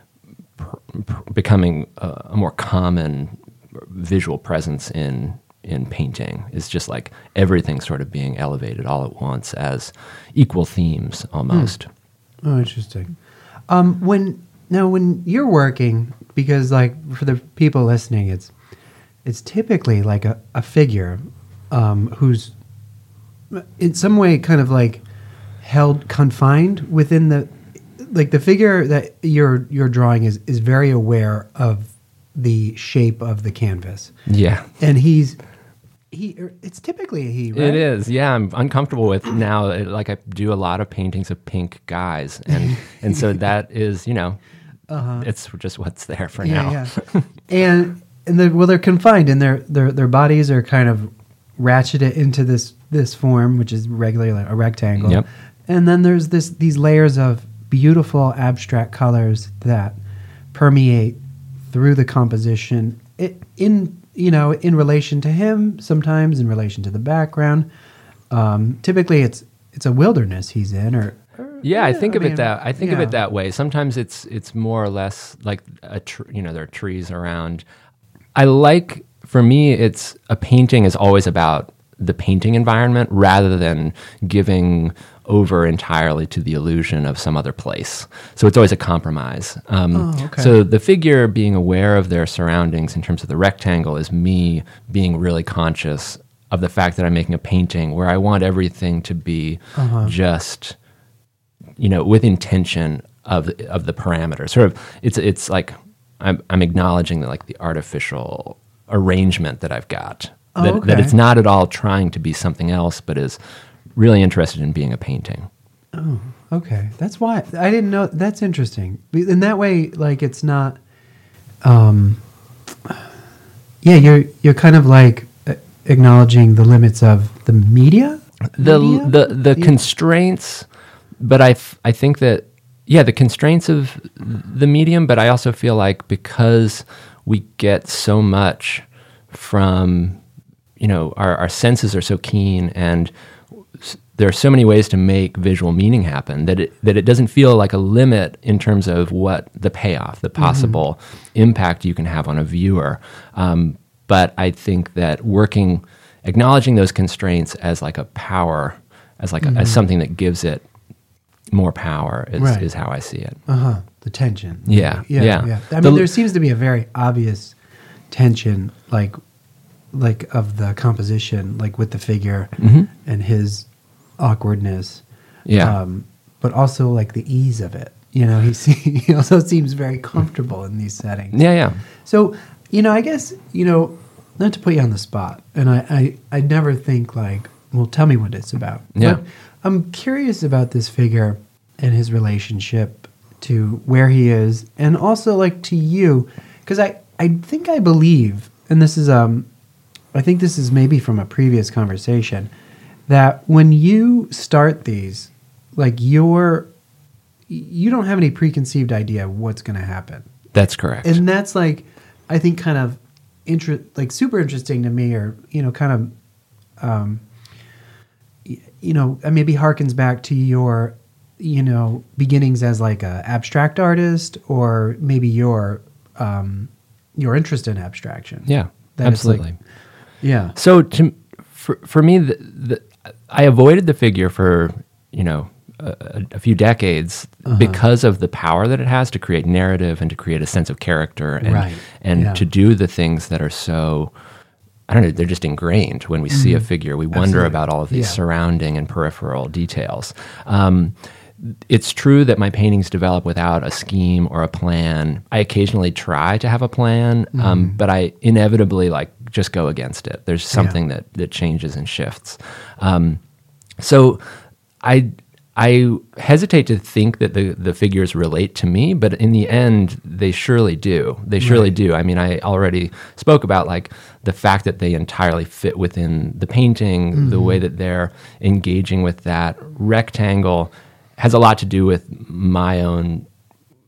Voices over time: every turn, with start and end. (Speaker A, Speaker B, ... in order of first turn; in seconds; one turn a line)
Speaker A: 0.6-11.9
Speaker B: 11.5-11.7
Speaker B: 12.4-13.1
Speaker B: 13.7-18.5
Speaker B: 19.2-22.5
Speaker B: 23.5-25.0
Speaker B: 25.6-34.1
Speaker A: 34.3-34.6
Speaker B: 34.8-35.4
Speaker B: 36.1-37.9
Speaker A: 37.5-44.4
Speaker B: 44.9-45.3
Speaker A: 45.2-47.2
Speaker B: 46.4-47.0
Speaker B: 47.5-60.0
Speaker B: 60.5-61.2
Speaker B: 61.7-67.7
Speaker B: 68.3-73.2
Speaker A: 71.6-77.6
Speaker A: 78.3-100.8
Speaker B: 89.9-90.5
Speaker B: 99.8-100.1
Speaker A: 101.8-113.4
Speaker B: 110.5-111.2
Speaker A: 114.0-115.5
Speaker B: 115.9-120.8
Speaker B: 121.6-122.2
Speaker B: 123.8-129.8
Speaker A: 128.5-130.7
Speaker A: 131.2-140.2
Speaker A: 140.8-143.1
Speaker A: 143.7-160.6
Speaker B: 150.4-150.8
Speaker B: 159.4-159.8
Speaker A: 161.5-163.4
Speaker B: 162.4-162.7
Speaker B: 163.4-167.6
Speaker A: 164.7-166.1
Speaker B: 168.1-169.2
Speaker B: 169.9-175.0
Speaker A: 172.6-172.9
Speaker A: 175.4-175.8
Speaker B: 175.6-181.5
Speaker A: 181.3-181.8
Speaker B: 182.0-199.5
Speaker A: 188.9-189.2
Speaker B: 200.1-202.5
Speaker B: 203.1-206.7
Speaker B: 207.5-210.3
Speaker A: 210.5-211.2
Speaker B: 211.0-216.1
Speaker B: 216.8-217.2
Speaker B: 218.4-229.5
Speaker A: 228.5-229.6
Speaker B: 230.2-230.6
Speaker A: 230.6-244.1
Speaker B: 237.4-237.8
Speaker B: 241.4-242.4
Speaker A: 244.9-263.2
Speaker B: 246.3-248.2
Speaker B: 257.3-257.8
Speaker B: 260.5-260.8
Speaker A: 263.8-264.2
Speaker A: 264.8-283.2
Speaker B: 271.4-271.7
Speaker B: 277.1-277.6